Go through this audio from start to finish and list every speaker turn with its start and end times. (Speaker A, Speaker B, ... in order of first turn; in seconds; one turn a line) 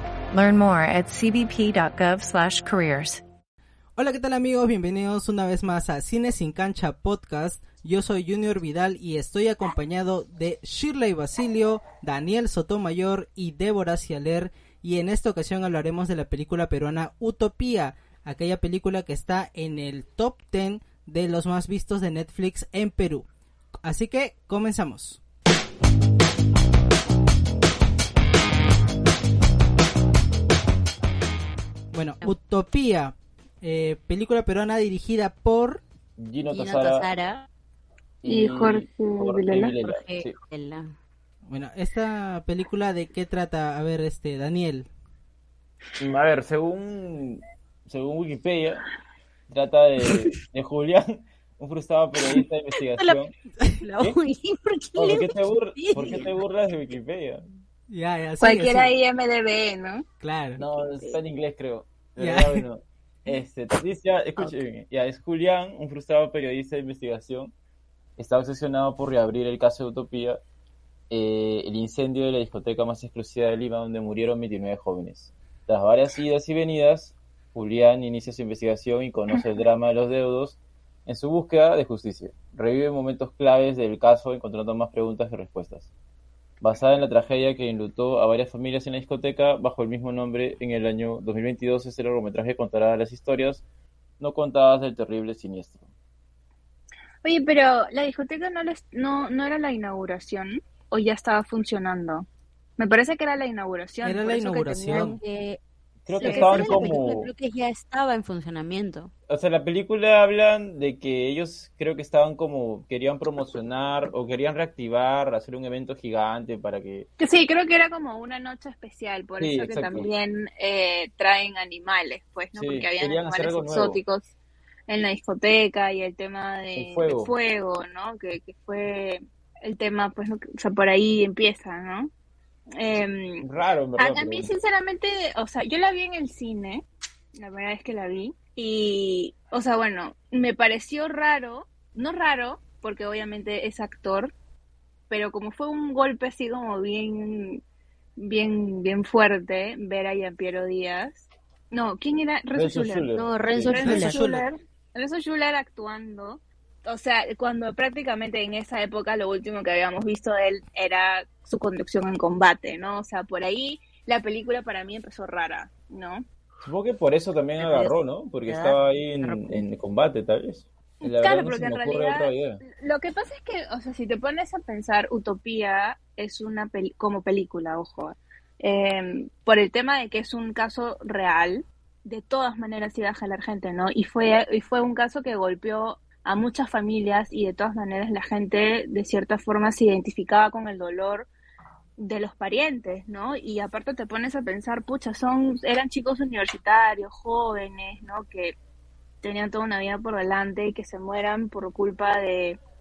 Speaker A: 0.3-3.2
Speaker B: 4.0-23.3
Speaker B: 23.8-25.2
Speaker B: 31.9-35.8
Speaker C: 36.2-37.1
Speaker D: 36.5-37.5
Speaker C: 38.2-40.4
Speaker E: 38.2-39.7
Speaker D: 39.8-40.9
Speaker B: 41.5-44.9
Speaker C: 46.0-48.8
Speaker C: 49.5-53.3
Speaker D: 52.9-53.2
Speaker D: 53.8-56.3
Speaker C: 55.0-57.4
Speaker B: 57.9-58.9
Speaker E: 58.4-60.0
Speaker B: 60.2-60.6
Speaker C: 60.6-67.5
Speaker B: 62.2-62.6
Speaker D: 64.4-64.6
Speaker C: 68.2-70.4
Speaker C: 71.1-85.9
Speaker C: 86.6-93.6
Speaker C: 94.2-95.8
Speaker E: 97.2-102.2
Speaker E: 102.8-105.1
Speaker B: 104.0-105.2
Speaker D: 104.9-105.6
Speaker C: 106.0-107.3
Speaker D: 106.1-109.1
Speaker E: 106.2-107.0
Speaker C: 109.3-117.1
Speaker E: 117.2-124.2
Speaker C: 119.4-120.1
Speaker C: 122.5-124.0
Speaker E: 124.9-132.1
Speaker C: 126.8-127.3
Speaker E: 132.8-133.4
Speaker C: 133.4-134.5
Speaker E: 134.0-136.8
Speaker E: 137.4-144.3
Speaker E: 145.1-147.6
Speaker E: 148.2-166.2
Speaker C: 152.5-154.1
Speaker D: 153.1-154.2
Speaker B: 153.8-154.4
Speaker C: 166.6-172.6
Speaker D: 167.6-169.7
Speaker E: 171.0-191.3
Speaker E: 192.0-198.5
Speaker E: 199.2-202.6